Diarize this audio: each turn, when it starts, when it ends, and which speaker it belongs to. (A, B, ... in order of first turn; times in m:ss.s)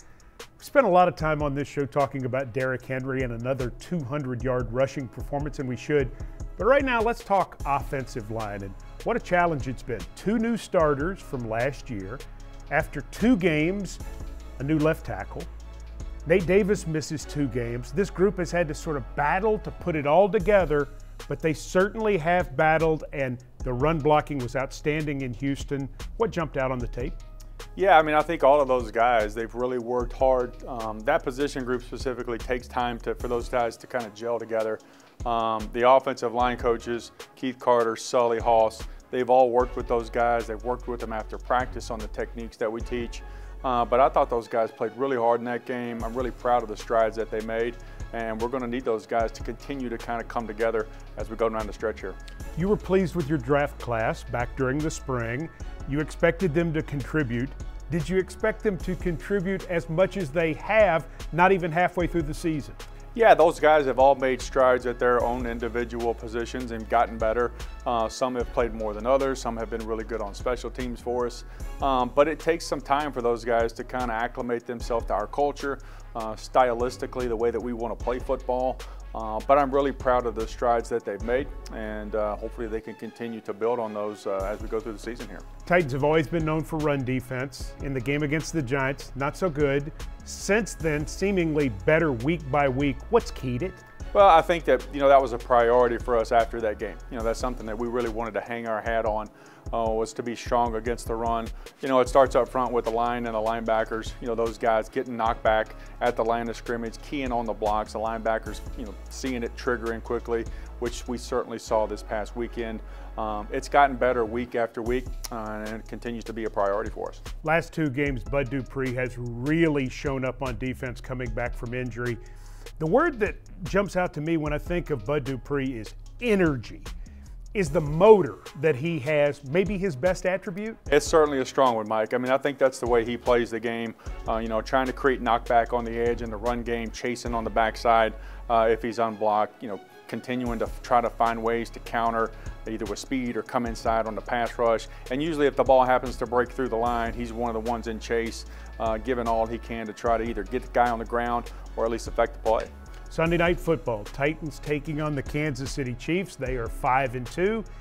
0:00.6-0:14.0 A
0:14.6-0:15.5 A
0:16.3-0:27.2 A
0:27.8-0:52.2 B
0:52.6-1:02.8 A
1:03.2-1:25.4 B
1:25.7-1:33.8 A
1:34.1-1:57.2 B
1:57.4-2:02.2 A
2:02.8-2:06.9 A
2:07.6-2:10.8 A
2:10.9-2:32.7 B
2:33.1-2:37.6 A